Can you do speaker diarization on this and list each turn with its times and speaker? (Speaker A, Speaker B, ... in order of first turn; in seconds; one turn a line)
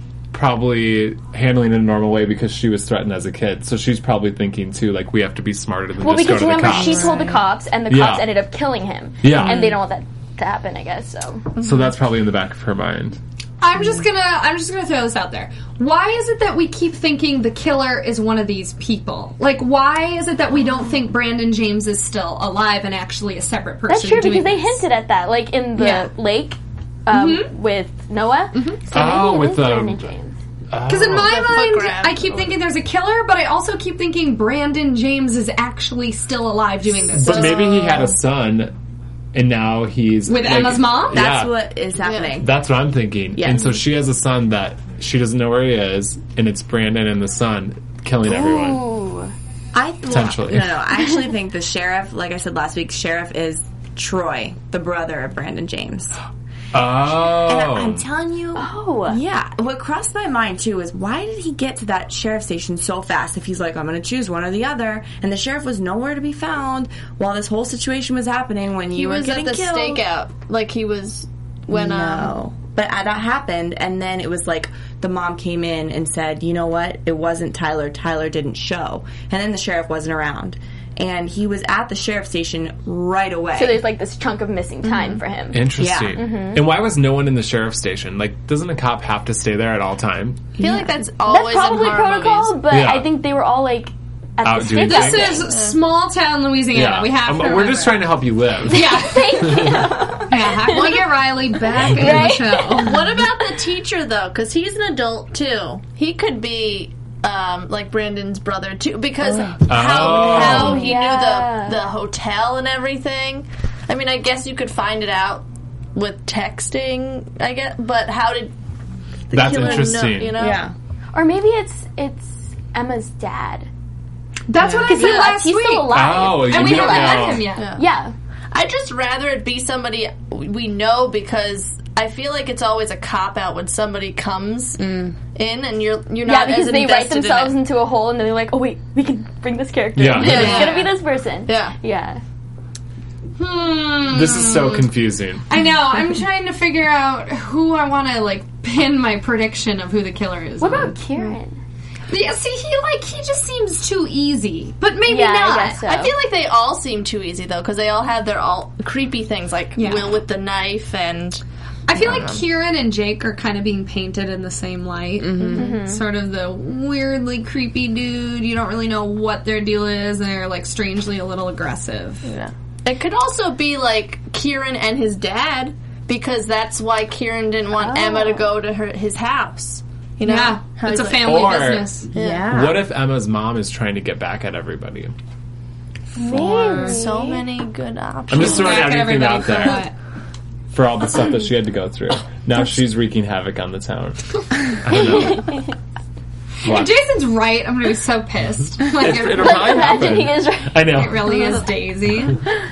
Speaker A: 0.3-7.1
Speaker B: 6.0-11.4
Speaker C: 6.7-7.4
Speaker A: 7.9-8.4
Speaker A: 9.2-9.8
Speaker C: 9.3-9.7
Speaker D: 11.6-11.9
Speaker A: 11.6-13.2
Speaker E: 13.6-24.8
Speaker B: 23.9-30.4
Speaker E: 25.8-26.1
Speaker E: 27.1-27.5
Speaker E: 28.5-28.8
Speaker A: 28.9-30.0
Speaker A: 30.7-31.5
Speaker E: 30.9-38.0
Speaker D: 31.1-32.5
Speaker A: 37.1-38.7
Speaker A: 39.3-41.6
Speaker E: 40.3-41.2
Speaker C: 41.1-42.5
Speaker D: 42.0-42.4
Speaker A: 42.4-48.9
Speaker C: 43.4-43.8
Speaker B: 48.2-49.3
Speaker C: 49.7-56.1
Speaker A: 50.1-50.8
Speaker A: 56.7-58.0
Speaker C: 57.3-70.0
Speaker B: 58.6-59.2
Speaker D: 68.9-72.3
Speaker C: 71.7-83.8
Speaker B: 83.5-86.7
Speaker A: 85.5-90.6
Speaker C: 85.8-86.2
Speaker D: 90.6-92.6
Speaker C: 90.6-90.9
Speaker B: 91.2-95.5
Speaker A: 92.7-93.1
Speaker A: 94.4-95.5
Speaker E: 94.8-103.0
Speaker D: 95.5-95.8
Speaker A: 96.7-100.1
Speaker B: 98.7-101.0
Speaker D: 100.7-101.0
Speaker B: 101.9-102.9
Speaker D: 102.2-118.5
Speaker C: 109.2-110.2
Speaker A: 109.7-110.9
Speaker B: 110.2-111.9
Speaker D: 119.3-120.6
Speaker A: 119.3-120.4
Speaker C: 120.3-120.7
Speaker B: 121.1-123.7
Speaker E: 124.5-127.7
Speaker C: 124.6-124.9
Speaker B: 124.8-128.1
Speaker D: 125.0-125.3
Speaker A: 125.9-127.5
Speaker D: 127.5-127.8
Speaker D: 128.5-137.6
Speaker C: 134.8-135.2
Speaker B: 136.2-142.2
Speaker A: 139.9-140.8
Speaker D: 140.2-141.8
Speaker E: 143.4-144.8
Speaker A: 144.1-145.4
Speaker E: 145.5-150.9
Speaker B: 150.6-151.6
Speaker E: 152.1-155.8
Speaker B: 155.1-156.2
Speaker D: 155.8-161.4
Speaker E: 159.8-160.2
Speaker E: 161.9-172.3
Speaker D: 161.9-162.4
Speaker C: 165.2-165.7
Speaker B: 165.5-166.0
Speaker D: 172.2-182.6
Speaker B: 177.8-178.5
Speaker E: 180.2-182.1
Speaker A: 181.2-185.1
Speaker C: 182.1-182.9
Speaker B: 186.1-187.4
Speaker E: 186.4-187.1
Speaker D: 186.4-189.1
Speaker A: 188.3-189.9
Speaker E: 188.3-189.9
Speaker A: 190.7-195.6
Speaker B: 194.9-195.7
Speaker A: 196.6-196.9
Speaker E: 196.6-200.0
Speaker A: 198.9-201.4
Speaker B: 199.3-200.9
Speaker E: 200.8-202.4